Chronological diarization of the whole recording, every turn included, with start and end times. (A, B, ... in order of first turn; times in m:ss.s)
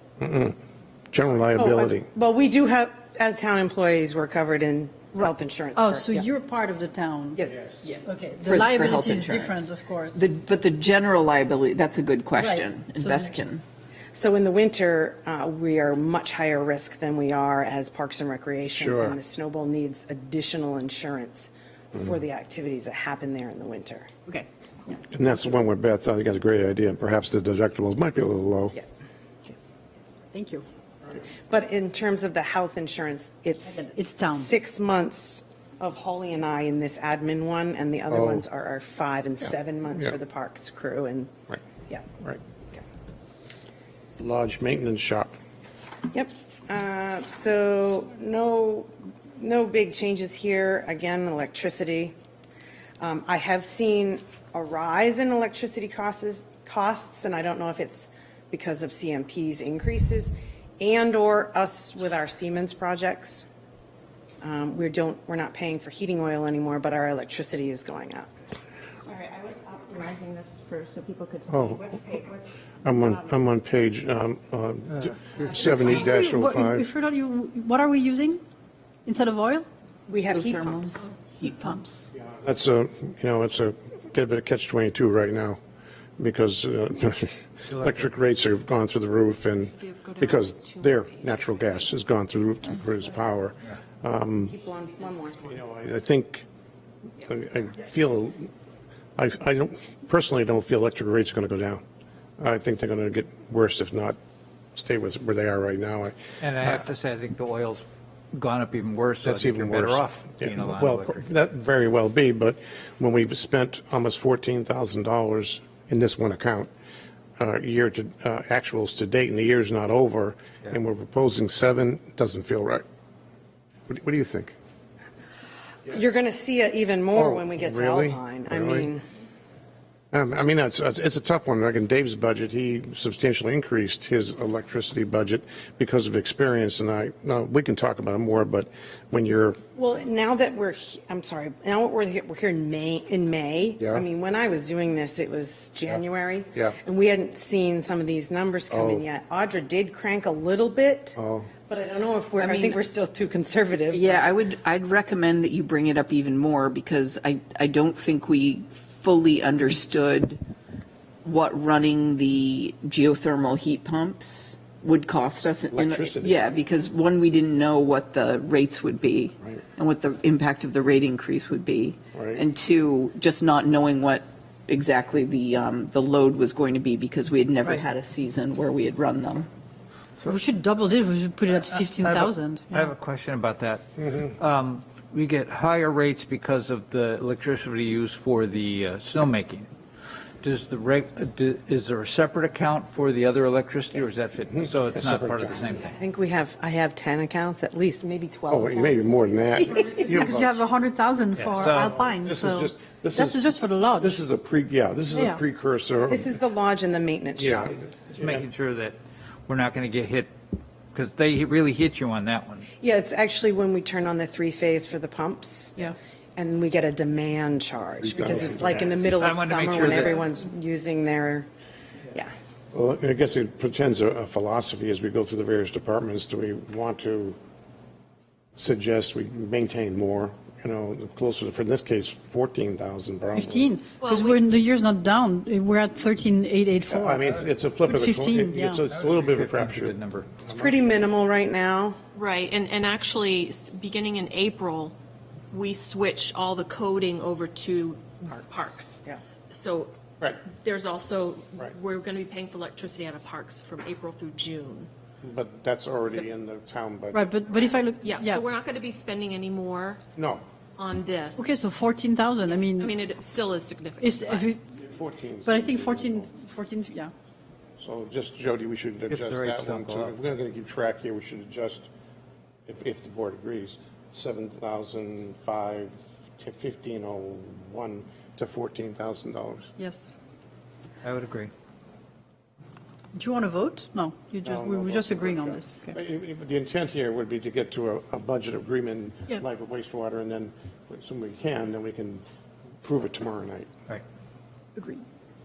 0:00.2-0:00.6 A
0:01.1-0:02.1 A
0:01.6-0:06.3 B
0:05.1-0:10.2 C
0:07.4-0:07.8 B
0:08.4-0:13.6 D
0:12.4-0:13.4 C
0:14.1-0:24.1 B
0:18.7-0:19.2 A
0:25.1-0:28.8 A
0:30.3-0:30.7 C
0:31.2-0:41.3 B
0:33.6-0:34.5 C
0:38.1-0:38.4 A
0:44.2-0:45.4 A
0:46.1-0:52.2 B
0:53.0-1:03.5 B
1:04.4-1:08.3 B
1:09.1-1:12.4 E
1:11.5-1:12.2 A
1:12.8-1:16.9 A
1:15.9-1:18.4 C
1:19.1-1:19.7 C
1:20.1-1:21.0 B
1:20.2-1:22.1 D
1:22.2-1:25.6 A
1:26.2-1:34.6 A
1:27.7-1:28.0 F
1:29.7-1:32.0 G
1:34.5-1:35.5 B
1:35.4-1:36.5 A
1:37.2-1:38.5 A
1:39.2-1:41.8 A
1:42.4-1:44.2 A
1:44.8-1:46.8 A
1:46.4-1:51.2 F
1:49.2-1:56.7 A
1:57.4-2:02.8 A
2:03.9-2:04.6 A
2:05.9-2:09.0 B
2:07.2-2:08.9 A
2:10.1-2:19.6 A
2:19.8-2:34.3 B
2:28.7-2:29.0 A
2:31.2-2:31.5 A
2:32.4-2:32.8 D
2:33.9-2:40.4 D
2:41.2-2:59.5 D
2:45.7-2:46.6 A
2:52.2-2:52.4 A
3:00.3-3:02.8 C
3:01.8-3:09.7 F
3:10.4-3:16.0 F
3:15.0-3:15.6 A
3:15.8-3:20.5 B
3:18.5-3:20.5 A
3:20.2-3:24.1 C
3:21.4-3:22.0 F
3:21.7-3:26.3 A
3:25.1-3:25.4 C
3:26.1-3:27.8 B
3:27.4-3:28.4 A
3:28.2-3:30.3 F
3:30.9-3:32.7 F
3:32.8-3:41.5 B
3:38.0-3:39.0 A
3:39.2-3:40.1 F
3:42.7-3:47.4 A
3:48.6-3:53.7 A
3:53.4-3:57.3 C
3:54.0-3:54.5 G
3:56.9-4:00.8 A
3:57.8-3:58.8 C
3:58.9-4:00.3 F
4:00.5-4:02.0 B
4:02.1-4:05.0 G
4:05.5-4:14.9 G
4:15.2-4:17.6 A
4:17.1-4:18.4 C
4:18.0-4:20.0 G
4:20.2-4:20.4 A
4:20.8-4:21.7 G
4:21.4-4:22.9 C
4:22.4-4:24.6 G
4:24.0-4:24.6 C
4:24.8-4:26.3 A
4:25.5-4:27.1 C
4:27.8-4:31.9 A
4:29.1-4:30.1 F
4:32.7-4:39.7 A
4:39.8-4:40.2 C
4:41.0-4:41.5 F
4:43.2-4:46.0 C
4:44.4-4:52.2 A
4:52.8-4:53.7 A
4:54.8-4:55.0 C